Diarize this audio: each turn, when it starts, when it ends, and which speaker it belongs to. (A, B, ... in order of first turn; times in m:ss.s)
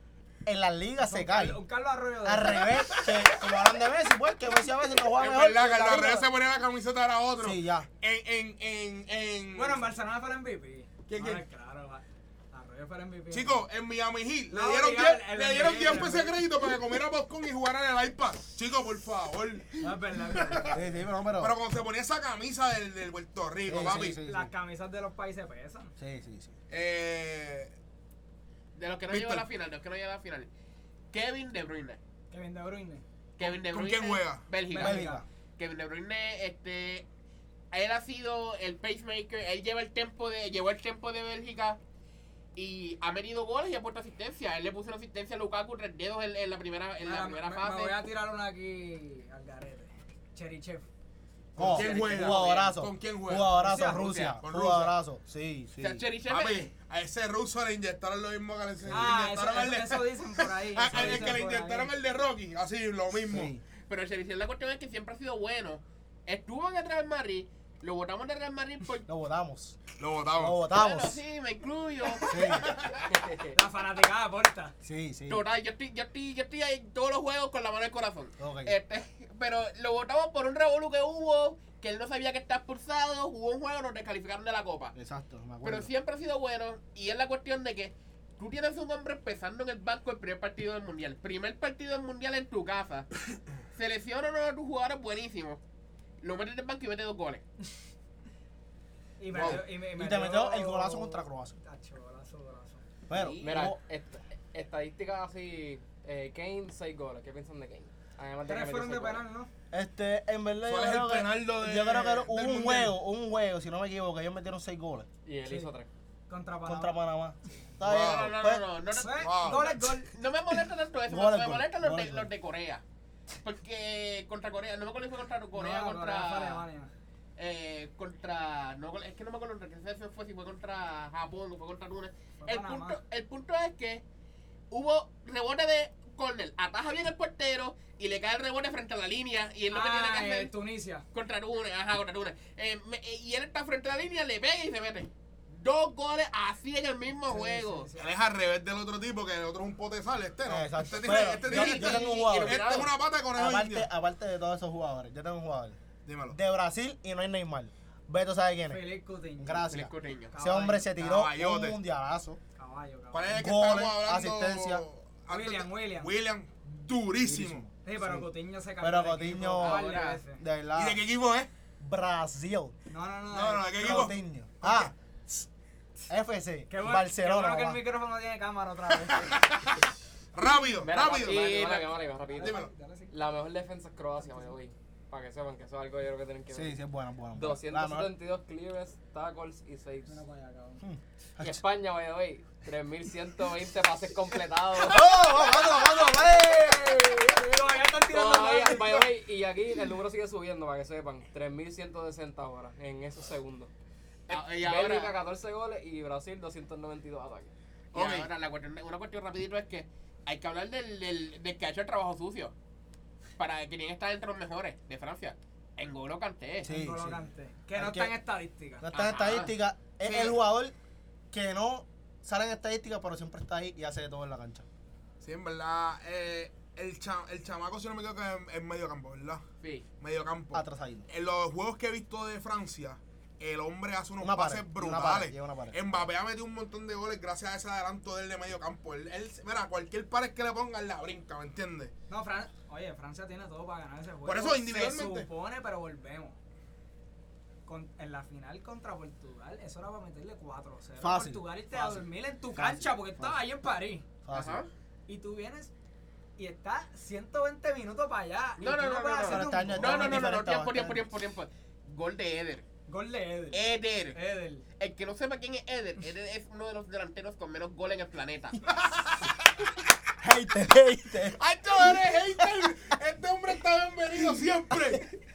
0:00.4-0:01.6 A
0:01.0-0:02.9 B
0:02.2-0:06.3 A
0:05.1-0:09.8 C
0:07.4-0:07.9 A
0:09.5-0:13.6 B
0:11.1-0:11.4 C
0:13.3-0:20.8 C
0:14.5-0:16.5 B
0:19.8-0:20.8 B
0:20.7-0:21.6 A
0:21.4-0:24.2 C
0:23.7-0:24.5 A
0:23.8-0:25.9 B
0:26.0-0:26.6 A
0:26.7-0:27.7 C
0:28.8-0:30.5 D
0:29.1-0:29.5 C
0:31.1-0:32.0 D
0:32.3-0:33.0 B
0:33.4-0:35.0 D
0:33.4-0:34.5 C
0:34.7-0:35.2 B
0:34.8-0:35.2 A
0:35.6-0:37.1 D
0:37.7-0:41.8 D
0:42.6-0:48.0 D
0:47.0-0:50.9 B
0:51.6-0:56.0 A
0:51.6-0:52.7 D
0:51.6-0:55.0 C
0:53.6-0:54.1 B
0:53.9-0:54.4 D
0:55.8-0:56.7 D
0:56.2-1:03.5 C
0:58.9-1:01.9 B
1:00.9-1:01.3 A
1:03.3-1:03.6 A
1:03.9-1:09.1 D
1:09.1-1:09.8 A
1:10.0-1:10.6 C
1:10.4-1:11.2 A
1:10.7-1:13.1 D
1:12.3-1:12.8 A
1:13.1-1:13.5 E
1:13.5-1:14.7 B
1:14.8-1:15.4 A
1:15.3-1:24.9 D
1:18.4-1:18.8 A
1:25.0-1:25.9 A
1:25.6-1:33.1 D
1:33.7-1:35.6 D
1:36.2-1:37.4 D
1:39.2-1:42.9 B
1:39.3-1:39.6 C
1:39.3-1:41.6 A
1:43.1-1:43.7 D
1:43.1-1:43.8 A
1:43.4-1:49.2 E
1:48.4-1:49.5 B
1:49.7-1:55.1 A
1:50.6-1:53.0 C
1:55.2-1:55.9 E
1:55.5-1:55.7 B
1:56.3-1:57.0 B
1:56.6-1:58.6 A
1:57.8-1:58.4 C
1:57.8-2:02.8 D
1:58.9-2:00.1 B
1:59.2-1:59.9 C
2:01.1-2:02.3 A
2:03.4-2:06.6 D
2:05.5-2:06.9 B
2:07.4-2:14.0 D
2:12.4-2:13.0 B
2:14.7-2:20.5 D
2:19.7-2:21.0 B
2:21.1-2:27.9 D
2:27.3-2:28.2 B
2:28.0-2:33.9 C
2:30.5-2:32.6 A
2:31.2-2:33.0 D
2:33.3-2:35.8 A
2:36.0-2:36.4 C
2:36.3-2:42.4 A
2:38.7-2:39.7 B
2:39.7-2:40.4 D
2:40.3-2:40.9 B
2:41.0-2:41.8 C
2:42.6-2:43.3 B
2:43.1-2:47.6 C
2:43.3-2:44.8 A
2:45.3-2:46.1 B
2:47.2-2:48.3 A
2:47.8-2:50.4 B
2:48.8-2:51.0 A
2:49.6-2:50.2 D
2:50.8-2:51.5 C
2:51.8-2:52.7 A
2:52.9-2:54.0 B
2:53.3-2:54.9 C
2:53.8-2:55.5 A
2:56.1-2:57.8 A
2:56.7-2:59.4 B
2:59.2-2:59.8 C
3:00.3-3:01.8 C
3:00.8-3:06.8 E
3:01.2-3:03.2 B
3:02.4-3:02.7 C
3:04.2-3:04.5 B
3:06.5-3:08.1 A
3:07.3-3:10.2 E
3:10.1-3:10.8 B
3:10.8-3:11.6 A
3:11.4-3:15.3 E
3:14.8-3:17.4 A
3:15.2-3:19.0 B
3:18.0-3:23.7 E
3:24.3-3:25.2 D
3:24.3-3:27.5 E
3:27.9-3:32.5 D
3:27.9-3:28.3 C
3:33.4-3:36.7 D
3:36.6-3:38.1 A
3:36.7-3:38.9 B
3:38.8-3:40.8 A
3:38.9-3:40.3 D
3:41.3-3:44.6 A
3:45.2-3:49.4 C
3:49.6-3:49.9 D
3:50.0-4:01.9 C
3:50.5-3:51.1 A
3:54.2-3:56.1 A
4:02.1-4:06.4 B
4:04.2-4:05.3 C
4:07.7-4:14.1 B
4:11.0-4:13.4 A
4:14.2-4:14.6 A
4:14.3-4:14.7 D
4:15.1-4:15.7 B
4:16.4-4:20.4 B
4:18.6-4:22.6 D
4:19.3-4:21.0 A
4:22.9-4:24.6 B
4:23.5-4:24.2 D
4:24.8-4:28.6 D
4:28.7-4:29.5 C
4:30.2-4:31.4 A
4:31.3-4:35.0 C